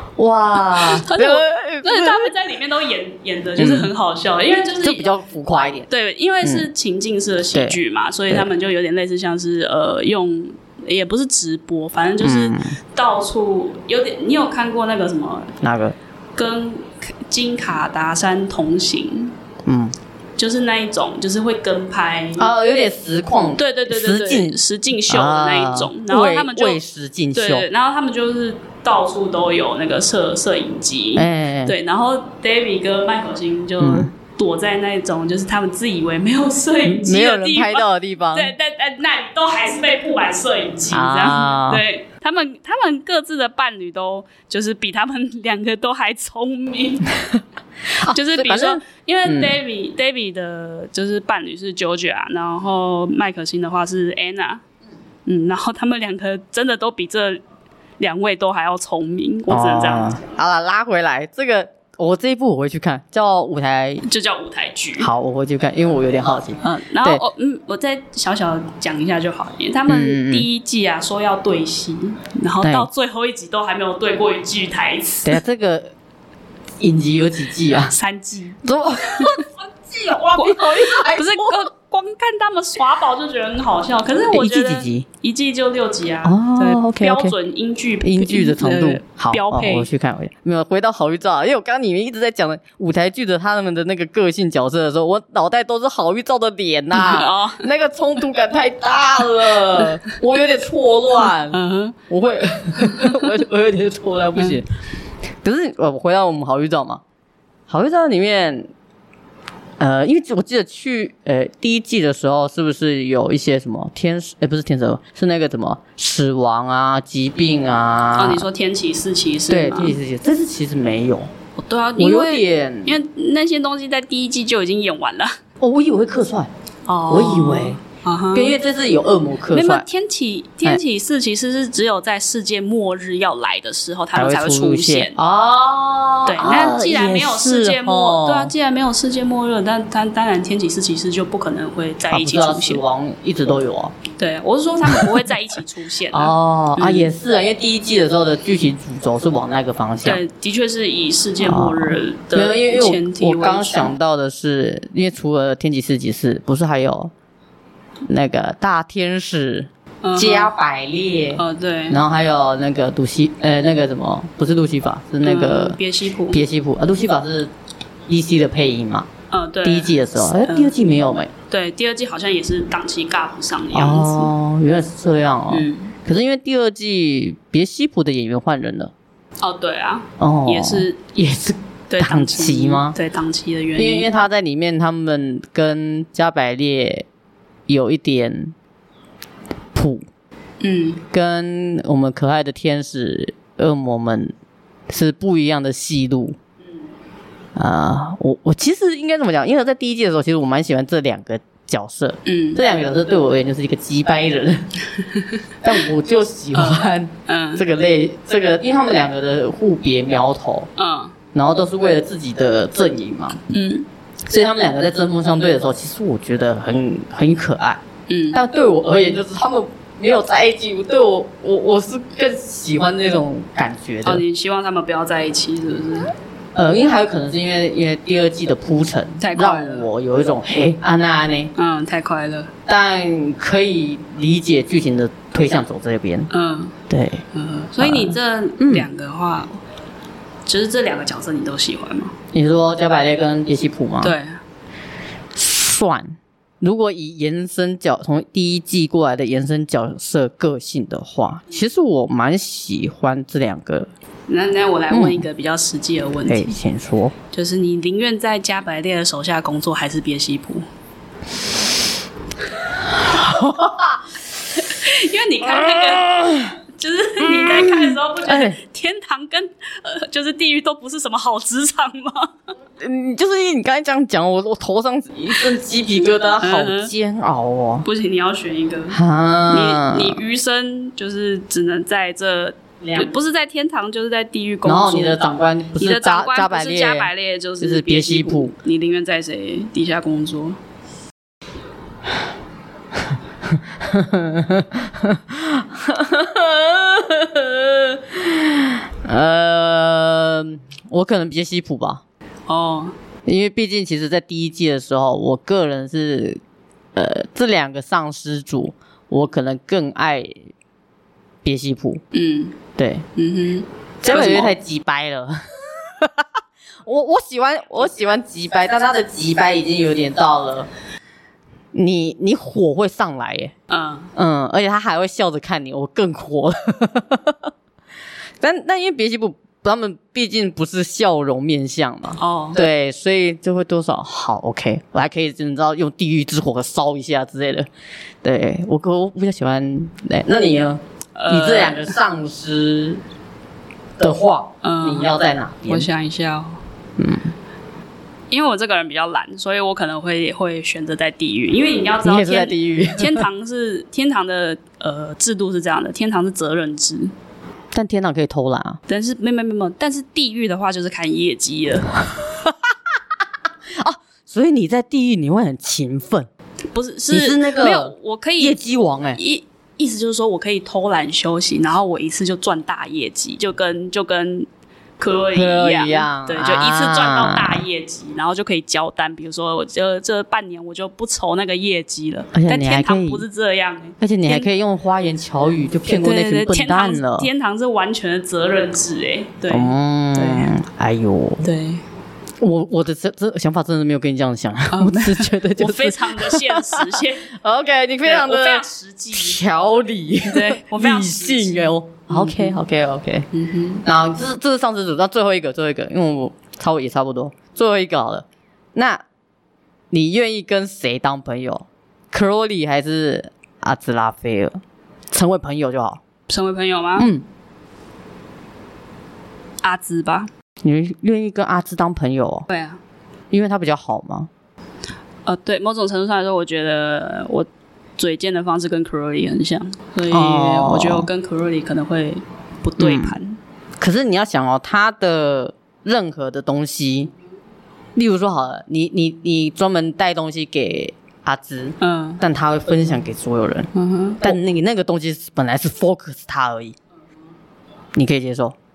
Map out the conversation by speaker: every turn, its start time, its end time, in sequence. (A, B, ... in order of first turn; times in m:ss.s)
0:00.2-0:02.3 A
0:00.7-0:05.1 B
0:03.6-0:03.9 A
0:04.8-0:05.9 A
0:05.9-0:15.6 B
0:06.4-0:06.7 A
0:07.5-0:07.8 A
0:12.2-0:12.7 A
0:15.6-0:15.9 A
0:16.4-0:19.3 B
0:19.6-0:19.9 A
0:20.4-0:22.6 B
0:22.4-0:27.7 A
0:23.5-0:26.8 B
0:27.3-0:47.1 B
0:31.1-0:31.8 A
0:33.8-0:34.1 A
0:36.8-0:38.5 A
0:40.9-0:41.8 A
0:47.9-0:49.6 A
0:48.0-0:54.6 B
0:55.2-0:57.4 B
0:58.0-1:00.2 B
0:59.5-1:04.0 A
1:04.0-1:05.1 B
1:05.0-1:07.2 A
1:06.6-1:15.4 B
1:09.9-1:10.5 A
1:12.6-1:12.9 A
1:15.2-1:15.9 A
1:16.8-1:17.9 A
1:17.8-1:18.6 B
1:18.6-1:21.6 A
1:19.2-1:19.5 B
1:20.1-1:29.9 B
1:24.3-1:25.0 A
1:26.2-1:27.3 A
1:28.0-1:41.6 A
1:36.9-1:37.6 B
1:41.5-1:42.0 B
1:42.1-1:44.7 A
1:45.4-1:47.0 A
1:47.7-1:48.7 A
1:49.8-1:58.4 A
1:58.2-2:00.0 B
1:59.5-2:01.3 A
2:01.6-2:05.4 B
2:02.0-2:02.9 A
2:05.6-2:06.5 A
2:06.9-2:08.5 B
2:07.1-2:07.8 A
2:08.3-2:09.8 A
2:09.5-2:15.2 B
2:14.1-2:18.5 A
2:16.2-2:22.8 B
2:22.1-2:24.0 A
2:24.2-2:27.1 B
2:24.9-2:25.2 A
2:26.1-2:30.2 A
2:30.0-2:33.9 B
2:31.4-2:37.1 A
2:38.1-2:47.5 A
2:40.0-2:40.5 B
2:41.3-2:42.0 B
2:45.2-2:46.4 B
2:48.1-2:49.1 A
2:49.3-2:50.8 B
2:49.6-2:51.3 A
2:51.4-2:54.3 B
2:53.7-2:58.9 A
2:55.5-2:55.9 B
2:59.4-3:01.0 B
3:00.2-3:03.0 A
3:01.9-3:04.1 B
3:03.8-3:07.0 A
3:07.7-3:08.5 A
3:09.7-3:10.0 A
3:10.6-3:11.0 B
3:11.1-3:14.3 A
3:14.9-3:16.4 A
3:17.6-3:24.7 A
3:22.2-3:22.6 B
3:25.0-3:25.4 B
3:25.6-3:30.7 A
3:26.5-3:27.6 B
3:30.8-3:31.1 B
3:31.3-3:33.4 A
3:33.5-3:33.8 B
3:34.3-3:37.8 A
3:38.1-3:38.4 B
3:38.3-3:44.2 A
3:44.0-3:46.1 B
3:46.5-3:51.5 A
3:49.2-3:49.9 B
3:51.6-3:52.5 B
3:52.7-3:56.3 A
3:56.3-3:56.8 B
3:56.9-3:57.2 A
3:57.3-3:59.6 B
3:57.8-3:58.9 A
4:00.4-4:02.1 B
4:02.3-4:04.2 A
4:04.0-4:04.4 B
4:05.3-4:13.9 A
4:14.3-4:16.6 B
4:14.9-4:15.2 A
4:16.2-4:17.1 A
4:17.3-4:20.6 B
4:22.8-4:24.2 A
4:24.6-4:32.3 B
4:25.5-4:26.6 A
4:27.2-4:28.6 A
4:32.8-4:37.8 A
4:36.4-4:36.9 B
4:37.8-4:50.6 B
4:38.9-4:40.2 A
4:42.8-4:43.1 A
4:44.6-4:48.5 A
4:53.5-5:02.0 A
5:02.5-5:02.9 B
5:03.2-5:06.4 A
5:06.9-5:10.4 A
5:11.4-5:12.0 A
5:12.1-5:12.6 B
5:12.8-5:13.0 A
5:13.2-5:14.5 B
5:14.0-5:16.3 A
5:16.8-5:20.7 A
5:21.7-5:23.5 A
5:23.7-5:24.1 B
5:24.1-5:27.5 A
5:28.4-5:37.7 A
5:32.2-5:32.6 B
5:38.2-5:43.0 A
5:41.2-5:42.0 B
5:44.0-5:45.9 A
5:44.6-5:45.1 B
5:45.7-5:46.6 B
5:47.0-5:47.3 A
5:48.3-5:57.1 B
5:52.0-5:53.3 A
5:57.7-5:58.8 A
5:58.9-6:02.0 B
6:02.3-6:02.6 A
6:03.7-6:06.3 A
6:06.7-6:08.6 B
6:07.1-6:09.2 A
6:09.1-6:14.5 B
6:15.0-6:24.5 B
6:15.3-6:17.6 A
6:22.3-6:23.2 A
6:24.0-6:27.3 A
6:25.8-6:30.5 B
6:29.5-6:31.4 A
6:31.4-6:31.8 B
6:32.4-6:43.3 A
6:34.7-6:37.3 B
6:38.0-6:39.4 B
6:40.3-6:42.6 B
6:43.3-6:43.8 B
6:43.8-6:49.0 A
6:49.9-6:56.0 A
6:56.3-6:57.1 B
6:57.0-6:57.2 A
6:59.6-7:00.3 B
7:00.6-7:02.5 A
7:02.5-7:02.8 B
7:03.3-7:04.3 A
7:05.2-7:13.4 B
7:10.1-7:11.1 A
7:12.8-7:13.2 A
7:13.8-7:17.1 A
7:17.9-7:23.7 A
7:21.8-7:22.2 B
7:23.7-7:24.4 B
7:24.2-7:26.8 A
7:27.9-7:28.6 A